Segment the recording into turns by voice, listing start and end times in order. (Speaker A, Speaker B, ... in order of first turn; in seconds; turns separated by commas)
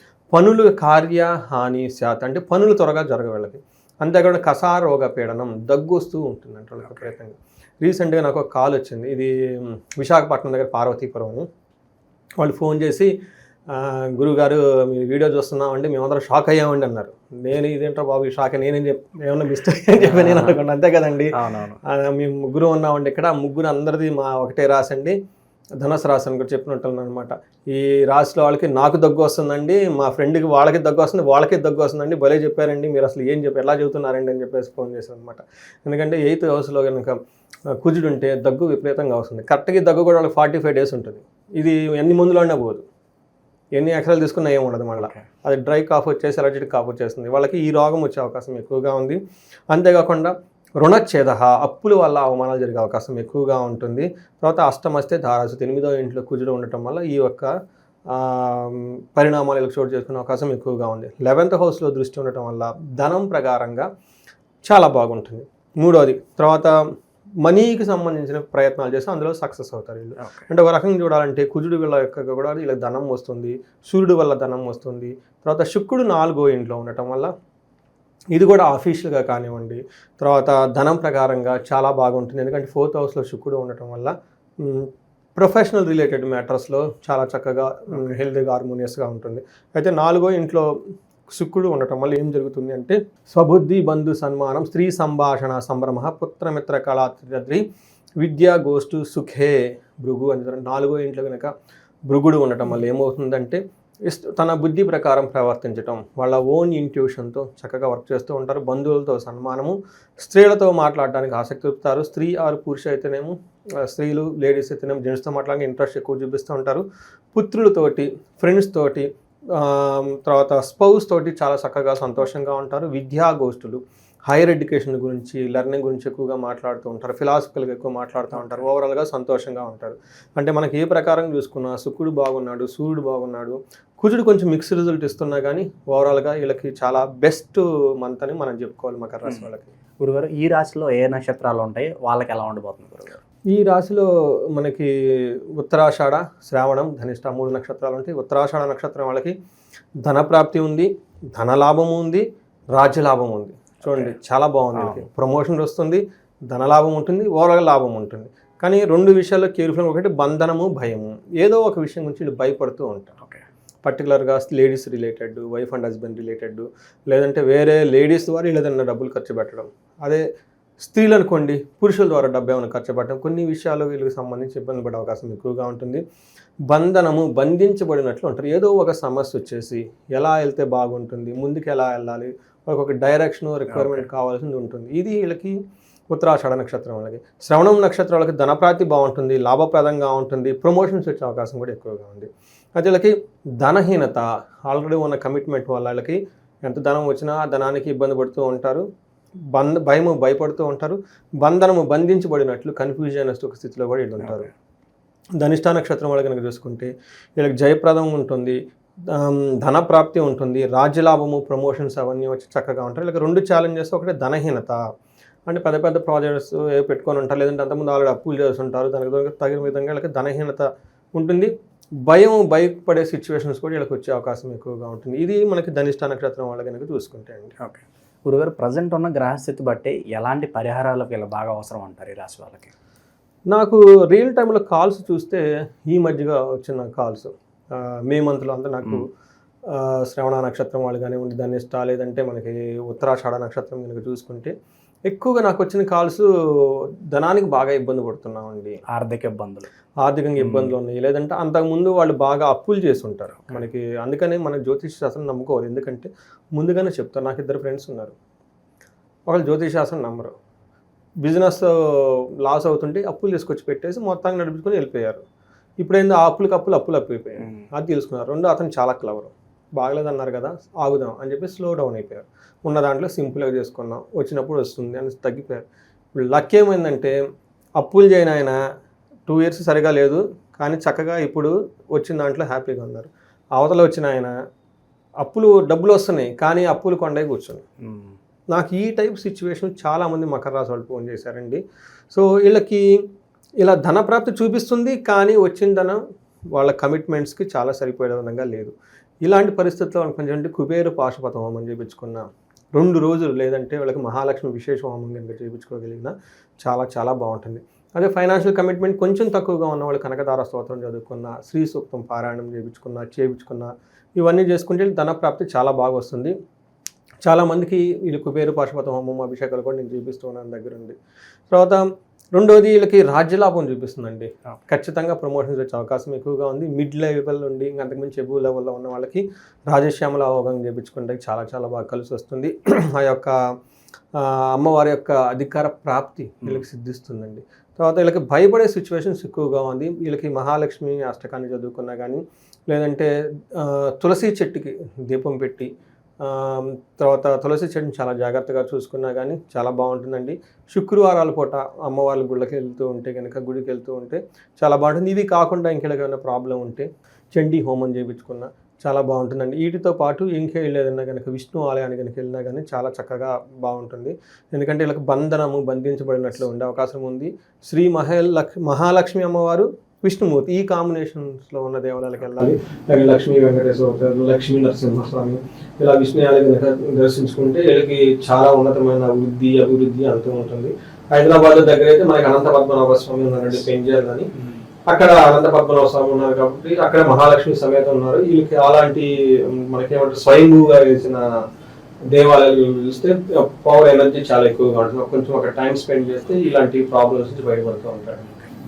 Speaker A: 0.3-11.5, Speaker A: 12.4-13.1, Speaker A: 13.7-21.3, Speaker B: 20.0-20.6, Speaker B: 21.3-21.8, Speaker A: 21.8-25.2, Speaker A: 25.8-37.1, Speaker A: 37.8-42.8, Speaker A: 43.8-49.2, Speaker B: 45.0-45.2, Speaker A: 49.7-57.5, Speaker A: 58.1-63.9, Speaker A: 64.7-66.8, Speaker A: 67.4-77.3, Speaker B: 70.2-70.5, Speaker A: 78.3-90.7, Speaker A: 91.3-97.6, Speaker A: 98.2-101.5, Speaker A: 102.1-139.7, Speaker B: 128.3-128.7, Speaker B: 140.0-143.2, Speaker A: 143.5-149.3, Speaker A: 150.0-163.2, Speaker B: 153.8-154.2, Speaker B: 154.8-155.1, Speaker A: 163.8-170.2, Speaker A: 170.8-176.0, Speaker A: 176.7-185.6, Speaker B: 183.7-184.1, Speaker A: 186.1-198.8, Speaker A: 199.5-204.5, Speaker A: 205.4-214.8, Speaker A: 215.5-221.5, Speaker A: 222.1-227.5, Speaker B: 227.6-232.7, Speaker A: 233.5-239.0, Speaker A: 239.7-244.5, Speaker A: 245.1-248.8, Speaker B: 248.9-249.7, Speaker A: 250.0-258.1, Speaker B: 250.4-250.7, Speaker A: 259.3-260.3, Speaker A: 261.2-265.2, Speaker A: 265.8-275.6, Speaker B: 267.4-267.7, Speaker A: 276.1-277.2, Speaker A: 277.8-278.6, Speaker A: 279.3-284.3, Speaker A: 285.2-287.6, Speaker B: 287.8-288.2, Speaker A: 288.5-293.0, Speaker A: 293.6-296.0, Speaker A: 296.5-302.2, Speaker A: 302.8-316.3, Speaker A: 317.2-321.0, Speaker A: 321.5-333.4, Speaker A: 334.1-345.7, Speaker A: 346.2-384.3, Speaker A: 384.9-391.3, Speaker A: 392.1-398.4